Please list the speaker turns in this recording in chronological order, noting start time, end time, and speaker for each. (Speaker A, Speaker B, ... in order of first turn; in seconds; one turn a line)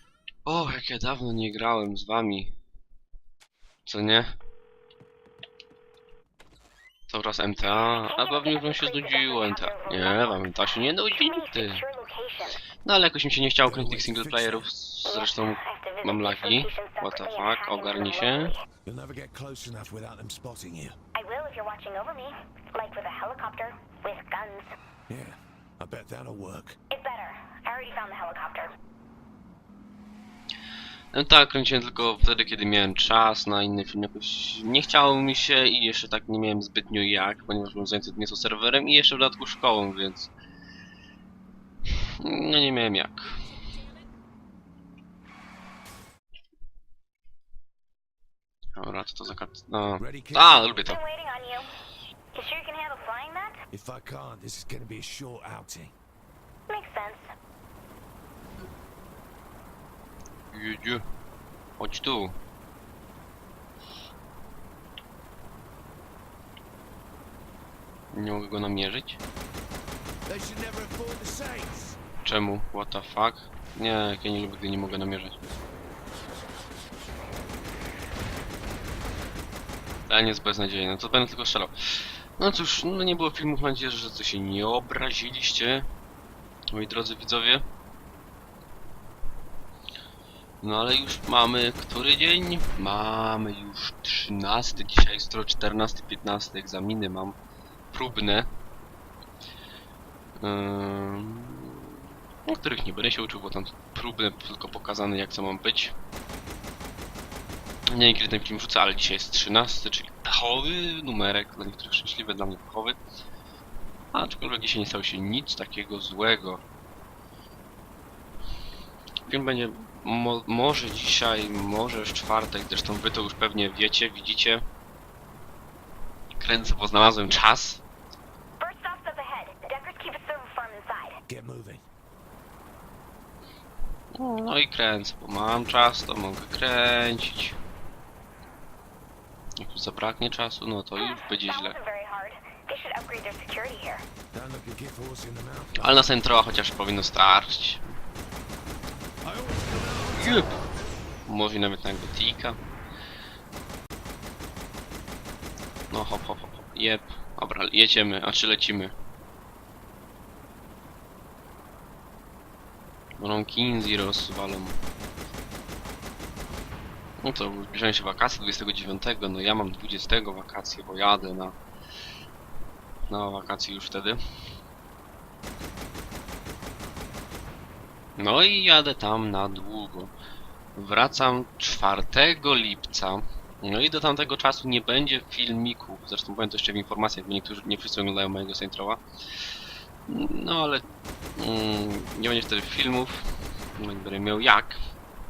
Speaker A: 0.5-2.5
Speaker A: 3.9-4.3
Speaker A: 7.1-11.8
Speaker B: 8.0-10.4
Speaker B: 11.0-12.6
Speaker A: 12.8-18.5
Speaker C: 13.6-14.7
Speaker B: 15.1-18.6
Speaker C: 18.8-21.0
Speaker B: 21.1-24.7
Speaker C: 25.1-26.8
Speaker B: 26.9-28.7
Speaker A: 31.1-40.3
Speaker A: 42.0-43.4
Speaker A: 48.8-51.0
Speaker C: 50.0-50.9
Speaker B: 50.8-51.7
Speaker B: 52.3-53.6
Speaker C: 53.7-55.9
Speaker B: 56.7-57.3
Speaker A: 60.5-61.0
Speaker A: 61.8-62.4
Speaker A: 68.1-69.2
Speaker C: 70.3-72.0
Speaker A: 72.2-75.4
Speaker A: 80.1-85.9
Speaker A: 86.7-87.7
Speaker A: 90.6-97.3
Speaker A: 97.9-98.5
Speaker A: 100.4-105.9
Speaker A: 107.9-113.0
Speaker A: 114.1-116.6
Speaker A: 119.3-124.6
Speaker A: 126.4-127.8
Speaker B: 128.6-131.2
Speaker C: 131.3-131.8
Speaker A: 134.1-137.6
Speaker A: 139.6-141.8
Speaker B: 140.9-144.1
Speaker C: 144.3-146.1
Speaker A: 145.8-148.0
Speaker C: 149.2-150.5
Speaker A: 150.1-150.6
Speaker A: 151.3-152.6
Speaker A: 155.9-158.9
Speaker A: 163.2-164.8
Speaker A: 167.2-171.6
Speaker A: 173.1-174.2
Speaker A: 178.2-180.1
Speaker A: 180.8-189.0
Speaker A: 190.1-193.2
Speaker A: 193.8-194.8